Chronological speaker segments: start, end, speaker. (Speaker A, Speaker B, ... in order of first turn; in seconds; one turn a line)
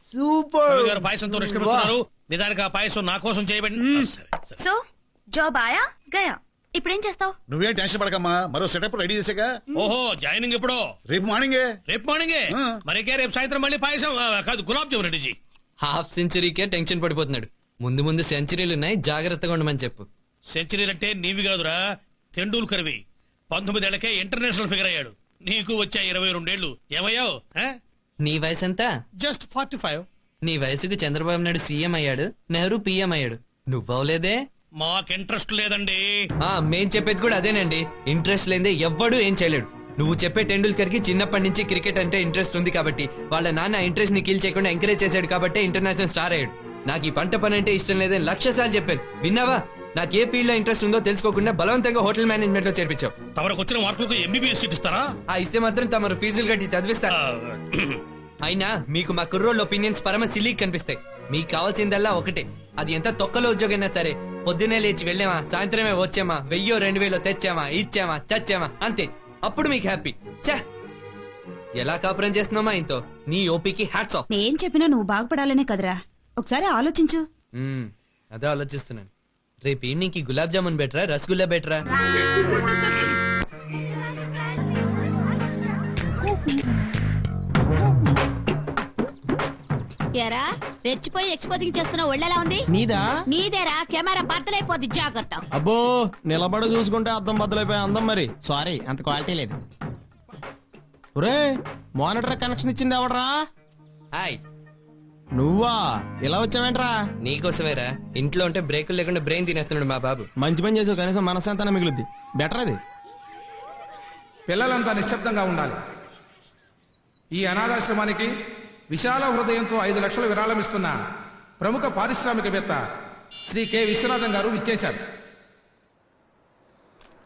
Speaker A: 0.2-0.5
Speaker B: 0.7-4.5
Speaker C: 5.3-7.3
Speaker D: 7.5-9.5
Speaker B: 9.8-10.8
Speaker D: 11.1-11.7
Speaker B: 11.9-15.3
Speaker A: 15.8-20.1
Speaker B: 20.5-21.8
Speaker B: 22.4-23.0
Speaker B: 23.5-27.7
Speaker A: 28.2-28.9
Speaker B: 29.2-30.0
Speaker A: 30.4-34.4
Speaker B: 34.8-36.0
Speaker A: 36.4-53.1
Speaker B: 53.4-55.1
Speaker A: 55.3-57.1
Speaker B: 57.1-58.0
Speaker A: 58.4-70.6
Speaker A: 71.8-74.2
Speaker E: 74.3-77.2
Speaker A: 77.5-79.1
Speaker A: 79.6-81.8
Speaker F: 90.2-92.6
Speaker G: 92.7-93.0
Speaker F: 93.3-95.4
Speaker G: 95.5-99.5
Speaker G: 101.2-103.3
Speaker A: 104.1-104.4
Speaker G: 105.4-106.9
Speaker A: 107.2-110.3
Speaker G: 110.4-112.8
Speaker H: 114.5-115.8
Speaker H: 117.4-118.3
Speaker H: 118.9-120.9
Speaker H: 121.6-122.8
Speaker H: 123.5-125.0